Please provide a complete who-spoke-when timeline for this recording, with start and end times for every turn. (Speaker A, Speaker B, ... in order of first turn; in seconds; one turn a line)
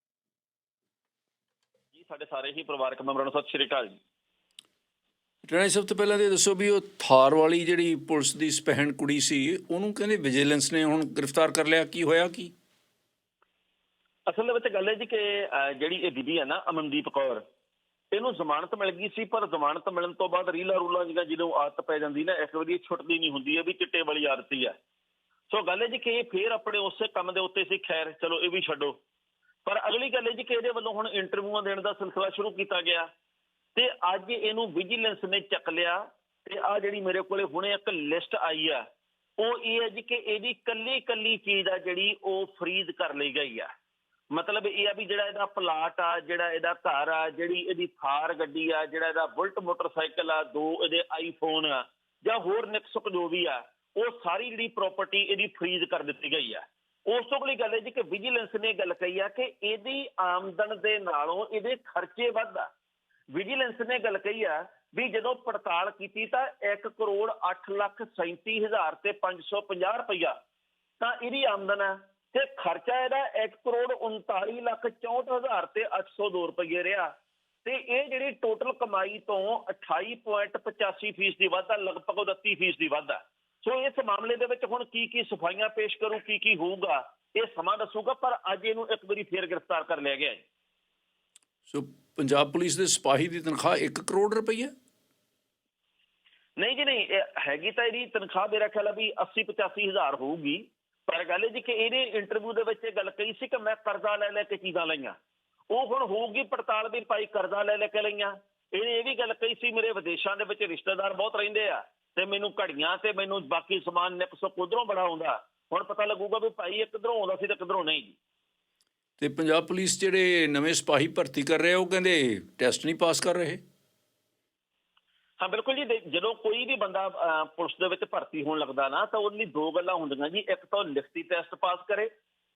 Speaker A: 1.9-4.0
Speaker B: 5.5-12.5
Speaker A: 14.3-17.4
Speaker A: 18.1-24.7
Speaker A: 25.5-28.9
Speaker A: 29.6-33.1
Speaker A: 33.7-38.8
Speaker A: 39.4-43.7
Speaker A: 44.3-62.7
Speaker A: 63.3-70.3
Speaker A: 71.0-77.1
Speaker A: 77.6-90.4
Speaker B: 91.7-94.7
Speaker A: 96.6-105.1
Speaker A: 105.7-118.2
Speaker B: 119.2-123.6
Speaker A: 125.4-132.1